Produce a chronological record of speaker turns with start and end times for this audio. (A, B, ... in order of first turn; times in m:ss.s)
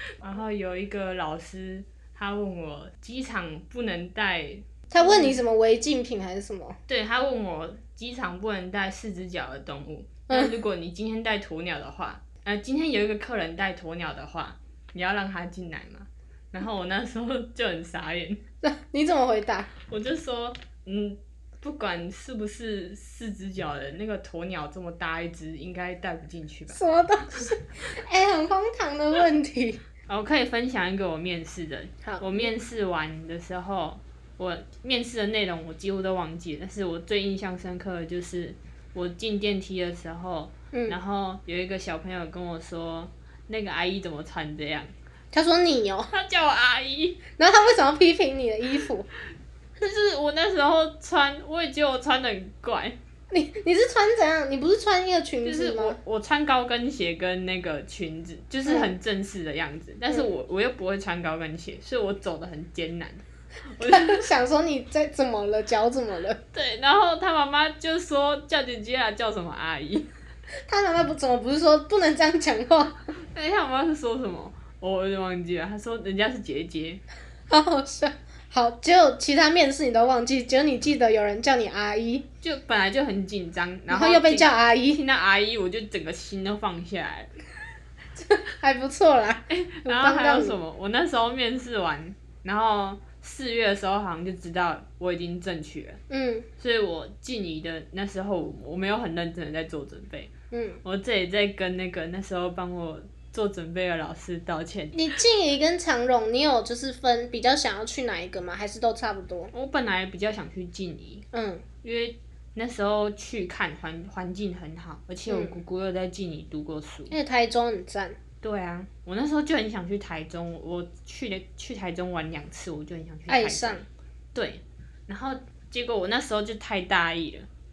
0:00.2-0:05.4 A
0:04.9-0:06.8 B
0:06.9-0:18.4 A
0:10.3-0:10.6 B
0:18.6-0:19.7 B
0:19.9-0:26.8 A
0:26.7-0:29.8 B
0:30.1-0:44.9 A
0:32.0-0:32.5 B
0:40.7-0:41.0 B
0:45.3-0:46.1 B
0:46.1-0:47.2 A
0:47.4-0:49.1 B
0:49.8-0:53.0 A
0:53.3-0:56.0 B
0:55.4-1:03.2 A
0:58.7-0:58.9 B
1:03.8-1:04.3 A
1:03.8-1:06.4 B
1:06.5-1:10.1 A
1:10.7-1:13.1 B
1:13.2-1:17.0 A
1:17.5-1:22.3 B
1:22.4-1:27.3 A
1:23.9-1:25.0 B
1:28.2-1:30.6 B
1:29.5-1:36.0 A
1:36.1-1:36.5 B
1:36.6-1:40.3 A
1:40.5-1:40.8 B
1:40.8-1:45.0 A
1:44.9-1:49.5 B
1:49.5-1:51.2 A
1:51.3-1:51.6 B
1:51.8-1:57.1 A
1:55.3-1:55.6 B
1:57.1-1:58.2 B
1:58.4-2:03.8 A
2:03.3-2:03.9 B
2:04.3-2:07.5 A